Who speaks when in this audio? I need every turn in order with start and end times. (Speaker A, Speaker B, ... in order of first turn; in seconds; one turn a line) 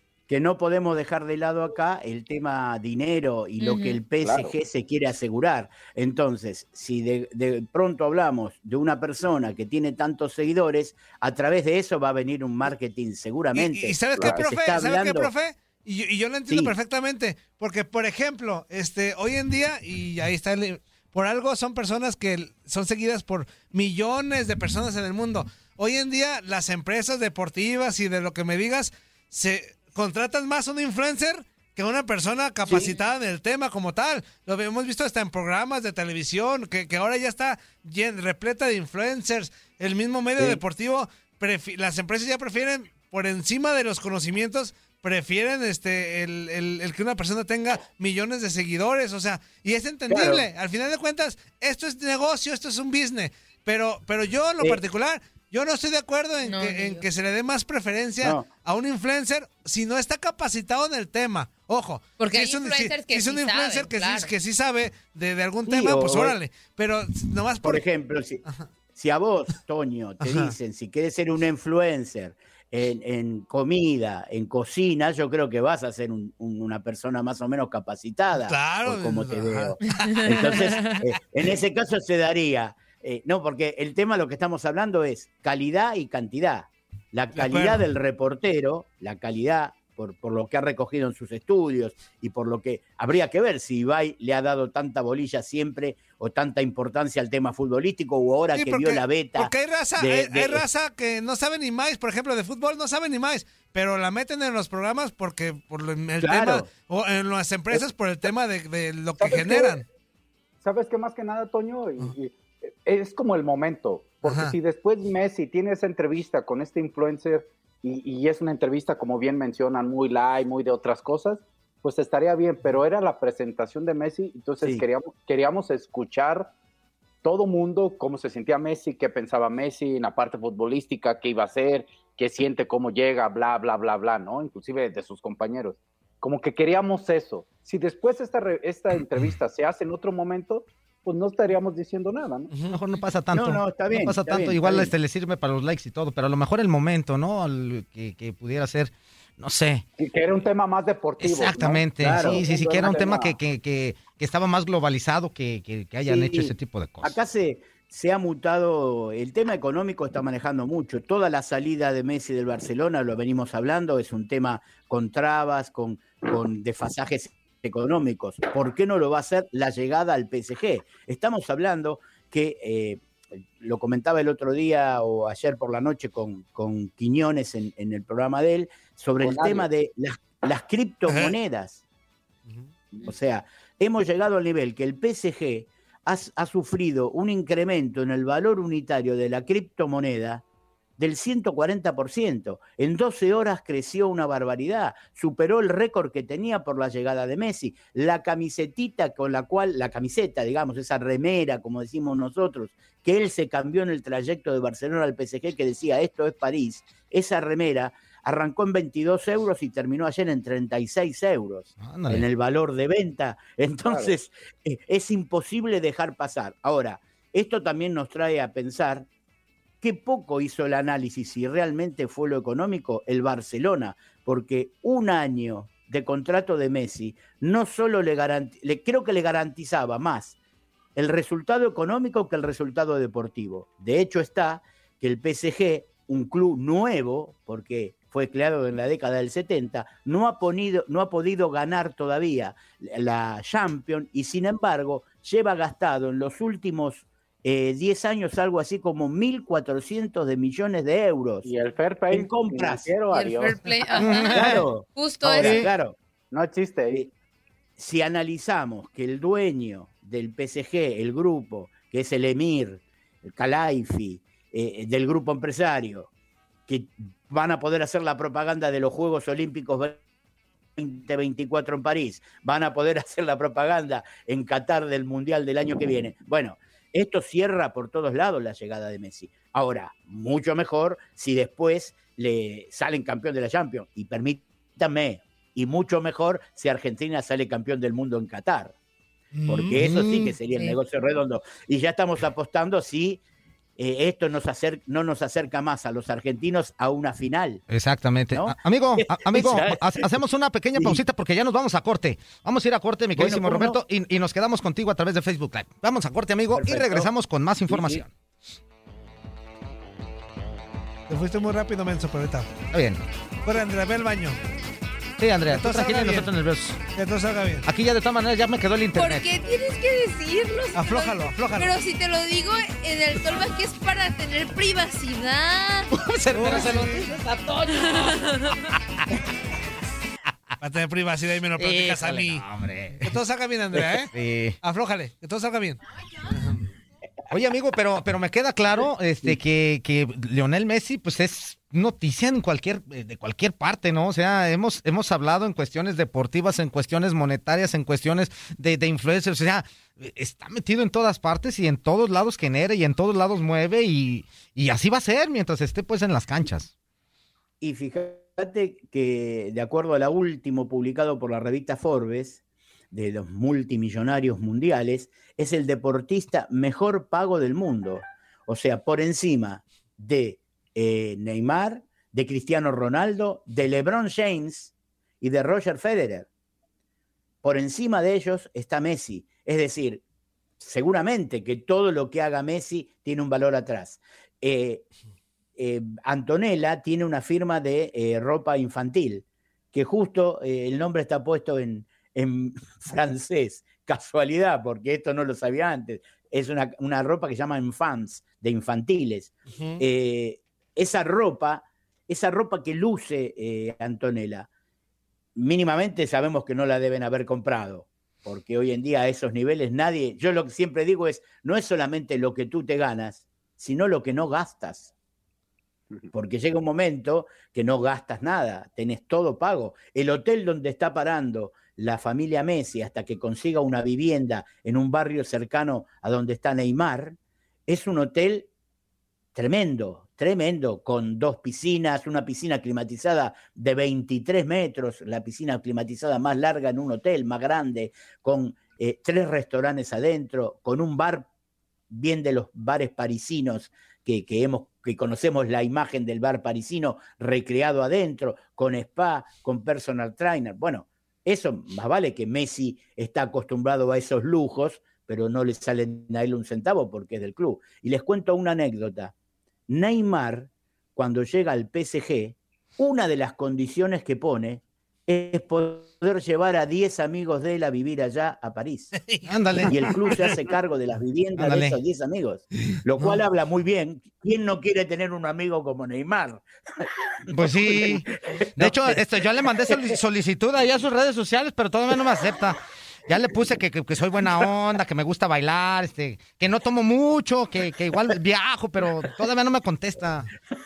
Speaker A: 0.3-15.3
Speaker B: 3.6-4.0
Speaker C: 4.2-4.5
Speaker D: 13.6-67.8
Speaker A: 16.5-16.7
Speaker A: 32.7-33.0
Speaker A: 50.1-50.5
Speaker B: 56.4-57.0
Speaker A: 58.2-58.5
Speaker B: 62.2-64.3
Speaker A: 65.7-66.4
Speaker A: 67.6-68.4
Speaker A: 69.0-100.7
Speaker D: 70.2-70.5
Speaker D: 78.3-80.9
Speaker B: 80.0-81.0
Speaker D: 87.3-87.8
Speaker D: 98.5-109.8
Speaker A: 106.2-106.7
Speaker C: 109.2-109.8
Speaker C: 110.6-126.5
Speaker D: 114.2-114.5
Speaker C: 127.2-142.5
Speaker D: 142.5-142.8
Speaker E: 142.7-149.9
Speaker A: 143.3-144.9
Speaker C: 150.0-153.3
Speaker E: 151.2-157.2
Speaker A: 151.9-152.9
Speaker A: 156.1-173.0
Speaker A: 173.6-181.8
Speaker C: 179.2-179.7
Speaker A: 182.9-190.4
Speaker A: 191.0-219.1
Speaker E: 211.8-212.2
Speaker A: 219.8-230.4
Speaker A: 231.0-251.5
Speaker C: 251.4-253.6
Speaker A: 252.1-252.9
Speaker B: 253.1-255.7
Speaker E: 254.0-254.7
Speaker A: 254.3-256.0
Speaker E: 255.4-255.7
Speaker C: 256.3-257.1
Speaker A: 257.8-266.1
Speaker A: 266.7-270.0
Speaker A: 270.8-288.7
Speaker D: 289.3-289.8
Speaker A: 289.5-293.2
Speaker E: 289.7-290.4
Speaker B: 290.5-290.8
Speaker A: 293.8-297.6
Speaker E: 297.7-308.1
Speaker A: 298.3-300.2
Speaker A: 300.8-301.0
Speaker A: 303.1-303.8
Speaker A: 306.5-307.1
Speaker A: 307.7-308.0
Speaker D: 311.1-312.5
Speaker E: 312.7-313.0
Speaker D: 313.4-314.4
Speaker E: 315.2-316.8
Speaker D: 315.5-316.3
Speaker D: 316.9-317.7
Speaker E: 317.6-319.3
Speaker B: 318.9-325.9
Speaker D: 320.8-321.7
Speaker E: 325.9-328.2
Speaker D: 326.3-327.1
Speaker B: 327.9-328.5
Speaker D: 330.6-332.5
Speaker E: 331.6-333.1
Speaker D: 333.0-336.7
Speaker E: 333.7-334.6
Speaker E: 337.3-356.7
Speaker A: 357.6-362.4
Speaker A: 362.9-376.3
Speaker A: 377.4-380.0
Speaker A: 380.6-384.9
Speaker A: 385.6-404.5
Speaker A: 405.4-414.9
Speaker A: 416.1-427.2
Speaker A: 427.7-428.5
Speaker A: 429.4-441.3
Speaker A: 441.9-459.1
Speaker A: 459.7-468.9
Speaker D: 469.0-469.3
Speaker E: 469.2-469.8
Speaker A: 469.7-476.4
Speaker E: 471.4-471.8
Speaker E: 477.3-490.3
Speaker A: 477.5-479.0
Speaker A: 479.5-480.0